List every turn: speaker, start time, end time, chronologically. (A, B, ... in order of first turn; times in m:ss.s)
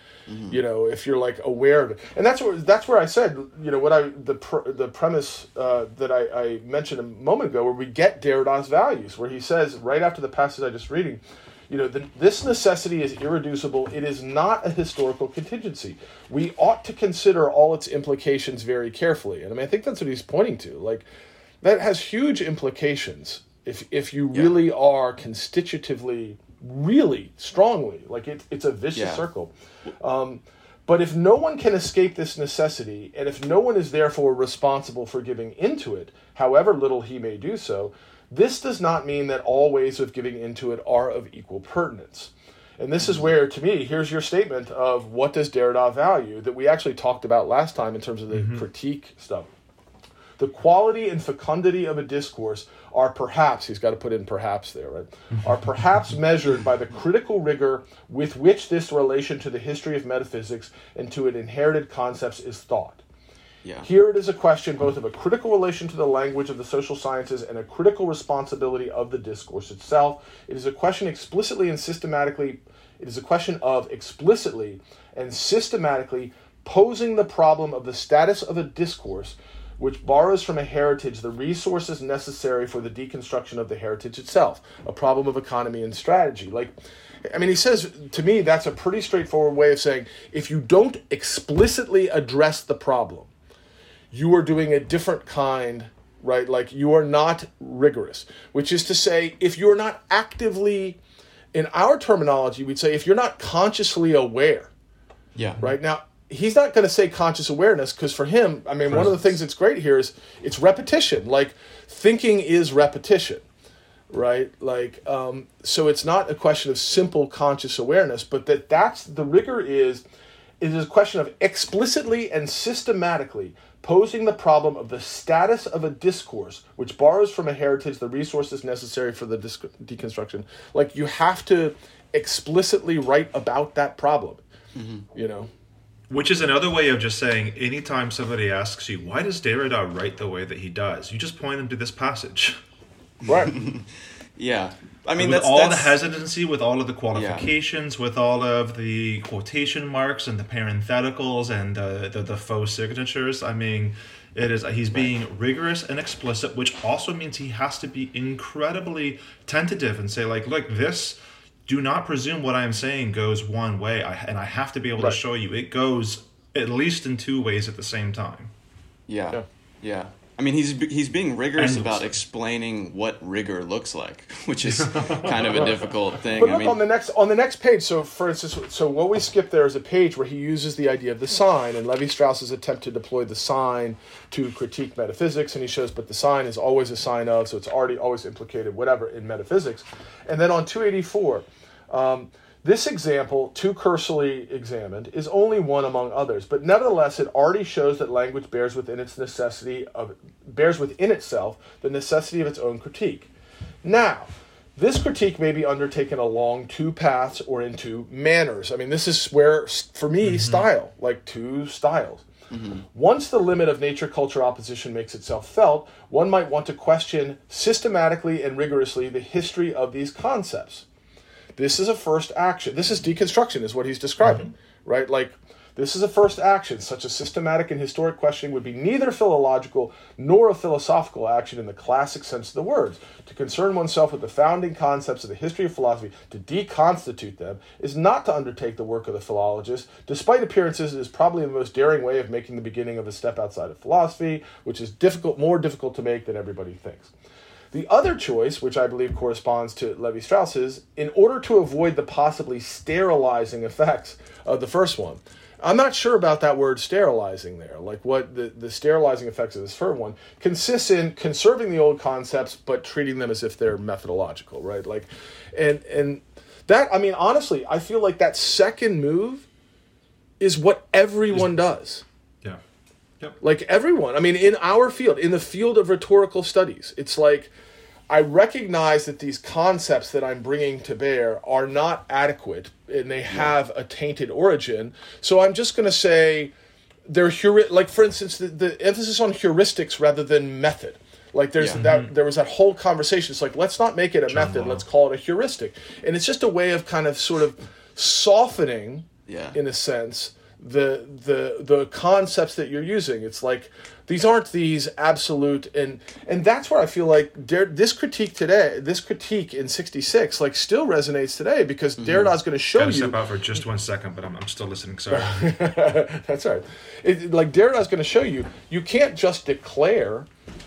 0:00.3-0:00.6 A
0:00.5-0:21.0 B
0:21.6-0:49.5 B
0:29.0-0:29.2 A
0:43.0-0:43.3 A
0:48.3-0:48.6 C
0:50.4-1:03.0 B
1:03.8-1:26.7 B
1:27.2-1:33.3 B
1:34.1-1:41.0 B
1:41.5-1:44.7 B
1:45.3-1:45.6 A
1:45.6-1:53.4 B
1:48.9-1:49.2 C
1:54.1-2:00.0 B
2:00.6-2:14.4 B
2:14.7-2:15.0 A
2:15.1-2:15.5 B
2:16.1-2:22.6 C
2:23.2-2:23.5 B
2:23.3-2:26.0 A
2:25.2-2:48.5 C
2:27.1-2:27.4 A
2:49.1-2:56.8 A
2:51.6-2:52.1 C
2:54.6-2:55.8 C
2:56.3-3:23.3 B
3:23.8-3:32.2 B
3:30.2-3:30.6 C
3:32.5-3:32.8 A
3:32.9-3:40.8 B
3:41.6-4:07.1 B
3:44.2-3:44.5 C
4:07.7-4:29.5 B
4:30.4-4:32.0 B
4:33.4-4:37.5 B
4:38.1-4:46.5 B
4:43.3-4:43.5 A
4:47.1-5:13.2 B
4:51.7-4:52.1 C
4:54.3-4:54.8 C
4:59.3-4:59.6 A
5:12.0-5:12.3 A
5:12.8-5:15.5 C
5:15.1-5:20.3 B